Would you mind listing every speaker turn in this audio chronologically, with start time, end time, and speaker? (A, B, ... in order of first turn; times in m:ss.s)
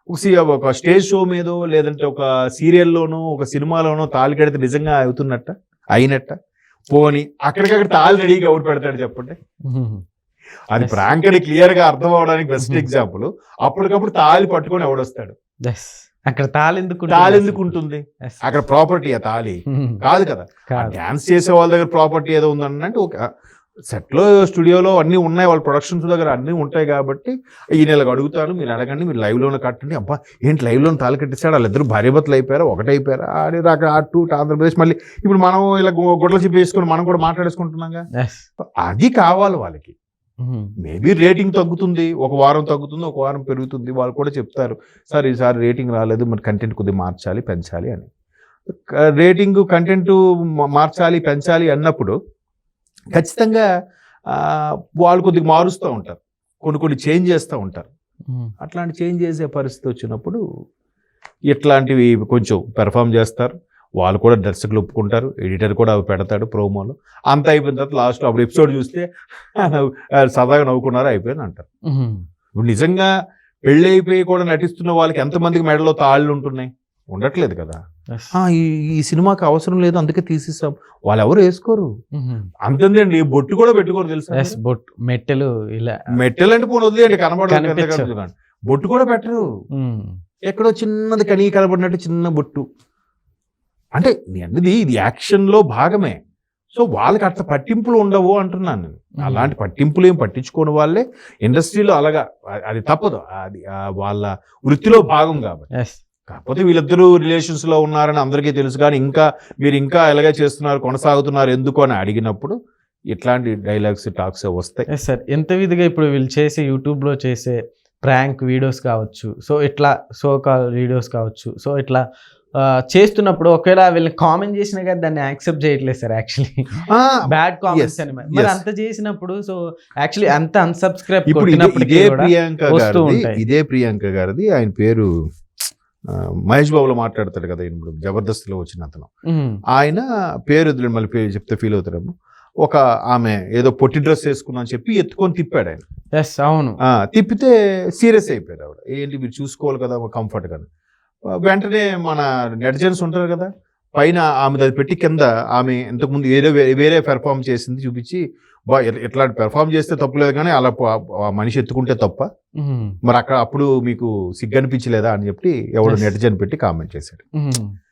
0:00.1-0:06.4 A
0:06.9-0:09.4 A
0:09.6-0:10.0 B
0:10.7-0:15.4 A
0:12.6-0:12.9 B
0:15.6-0:18.5 B
0:17.1-0:23.3 A
0:19.7-0:20.0 B
0:20.7-0:21.0 B
0:23.9-0:38.0 A
0:38.2-0:38.5 B
0:38.8-0:40.0 A
0:40.4-0:40.7 B
0:40.8-0:48.1 A
0:48.7-0:52.2 A
0:53.1-0:53.7 A
0:54.3-0:57.9 A
0:58.3-0:58.5 B
0:58.6-1:00.4 A
1:01.5-1:11.6 A
1:11.9-1:12.2 B
1:12.6-1:13.1 A
1:13.7-1:17.8 A
1:18.3-1:21.9 A
1:22.1-1:22.5 B
1:22.6-1:24.6 A
1:24.3-1:26.1 B
1:26.1-1:29.4 A
1:27.5-1:28.1 B
1:29.7-1:30.2 B
1:30.5-1:32.6 A
1:34.0-1:36.2 A
1:36.7-1:45.7 A
1:39.2-1:39.5 B
1:45.7-1:46.0 B
1:46.3-1:52.6 A
1:53.1-1:54.9 A
1:54.9-2:02.0 B
2:02.6-2:13.4 B
2:06.9-2:08.6 A
2:11.3-2:15.1 A
2:16.1-2:19.1 A
2:19.3-2:19.6 B
2:19.7-2:25.8 A
2:26.1-2:26.8 B
2:26.9-2:30.7 A
2:31.3-2:42.3 A
2:42.6-2:43.0 B
2:43.0-2:47.2 A
2:47.4-2:47.8 B